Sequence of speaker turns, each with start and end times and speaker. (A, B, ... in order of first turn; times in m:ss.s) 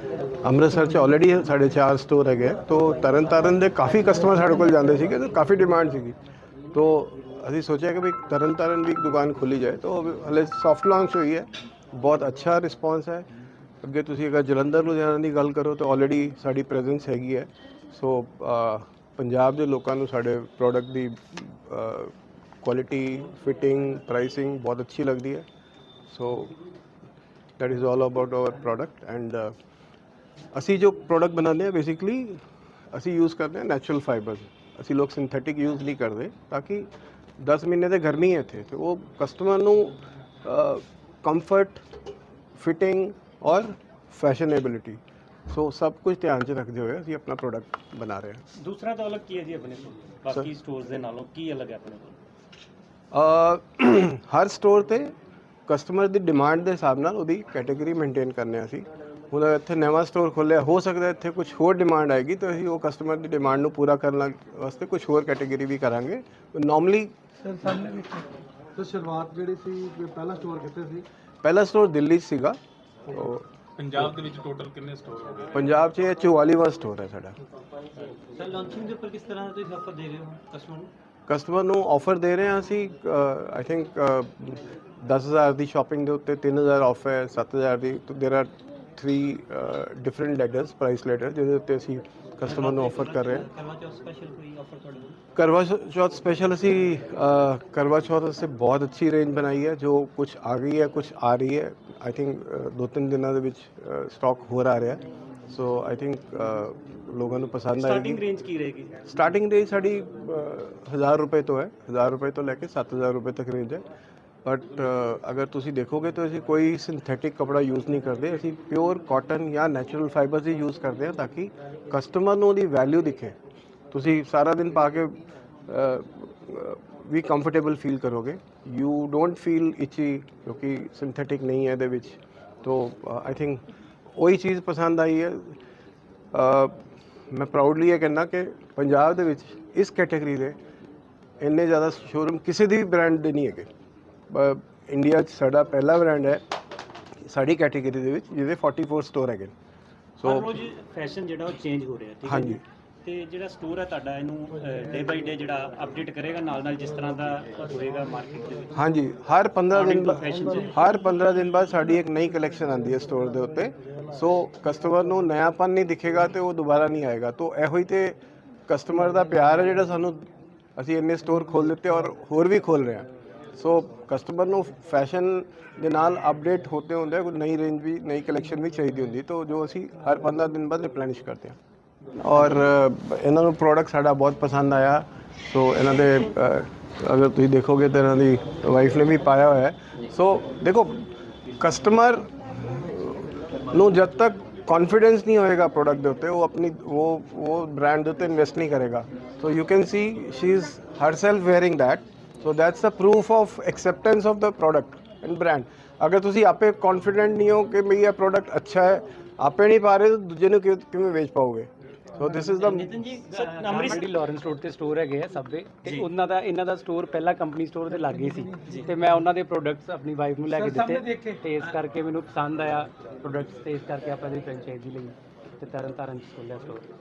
0:00.4-0:06.2 A
0:06.7-0:13.3 A
0:13.8-0:25.4 A
0:26.1-0:26.5 A
0:27.6-0:29.5 A
0:30.5-0:32.4 A
0:32.9-0:36.9 A
0:37.4-0:41.8 A
0:42.6-0:48.4 A
0:48.6-0:52.2 B
0:53.1-0:55.1 A
0:55.7-1:07.7 A
1:07.5-1:08.2 C
1:08.8-1:10.9 D
1:09.1-1:11.0 C
1:11.4-1:13.4 A
1:13.8-1:15.6 D
1:15.5-1:17.3 A
1:18.1-1:20.9 B
1:18.3-1:20.7 C
1:21.3-1:33.5 A
1:32.4-1:35.2 B
1:35.3-1:48.2 A
1:47.7-1:49.0 B
1:49.0-1:53.8 A
1:54.4-2:03.4 A
2:03.9-2:13.6 A
2:14.1-2:15.6 A
2:16.3-2:16.8 A
2:17.3-2:20.6 A
2:21.4-2:23.7 A
2:24.3-2:26.4 A
2:27.2-2:29.5 A
2:30.2-2:30.5 A
2:30.2-2:38.7 B
2:32.2-2:32.6 A
2:38.7-2:48.2 A
2:39.7-2:40.7 B
2:48.7-3:01.6 A
3:02.2-3:33.0 A
3:32.6-3:33.1 C
3:32.7-3:34.1 B
3:32.8-3:46.8 E
3:38.6-3:38.9 B